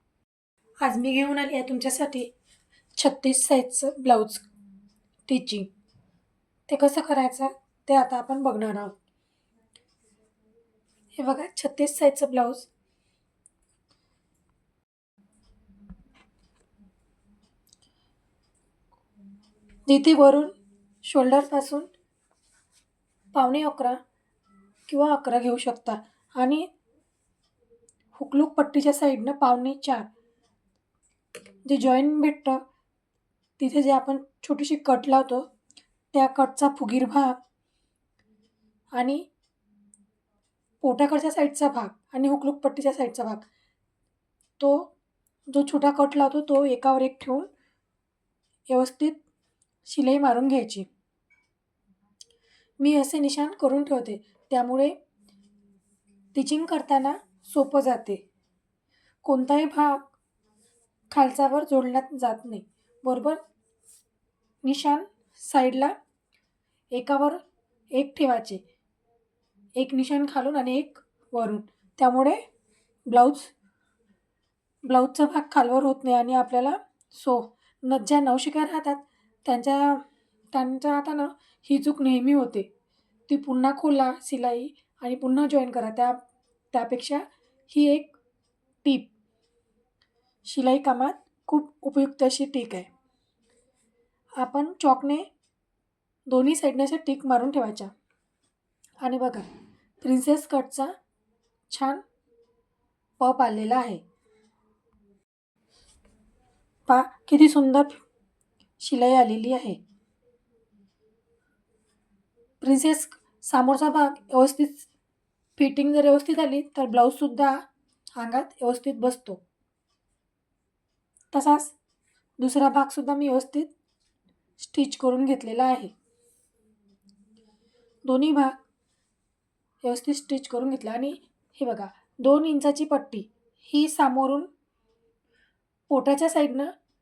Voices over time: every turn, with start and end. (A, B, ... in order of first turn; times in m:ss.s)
0:00.8-0:02.3 A
0:03.0-0:04.4 A
0:05.3-0:05.7 A
0:06.7-0:09.0 A
0:11.2-0:12.7 A
0:19.9-0:20.5 A
0:21.0-0:21.9 A
0:23.3-0:24.0 A
0:24.9-0:26.7 A
0:28.2-0:30.1 A
0:31.7-0:32.6 A
0:33.6-0:35.5 A
0:36.1-0:37.4 A
0:38.9-0:39.3 A
0:40.8-0:43.5 A
0:44.6-0:44.9 A
0:45.5-0:47.5 A
0:48.7-0:49.2 A
0:49.9-0:50.9 A
0:52.8-0:55.0 A
0:56.3-0:58.2 A
0:59.2-1:00.0 A
1:01.1-1:03.4 A
1:04.6-1:05.9 A
1:06.9-1:07.4 A
1:07.9-1:08.6 A
1:09.8-1:12.4 A
1:13.1-1:13.5 A
1:14.9-1:22.7 A
1:23.3-1:28.1 A
1:28.8-1:29.1 A
1:30.4-1:32.9 A
1:34.4-1:35.3 A
1:36.3-1:37.9 A
1:39.0-1:39.5 A
1:40.0-1:40.9 A
1:41.7-1:42.0 A
1:43.2-1:44.0 A
1:46.9-1:48.0 A
1:48.8-1:49.8 A
1:52.6-1:54.9 A
1:55.6-1:57.6 A
1:58.2-1:59.4 A
2:01.3-2:01.8 A
2:02.4-2:03.7 A
2:04.6-2:05.9 A
2:08.0-2:08.6 A
2:09.8-2:14.5 A
2:15.9-2:16.7 A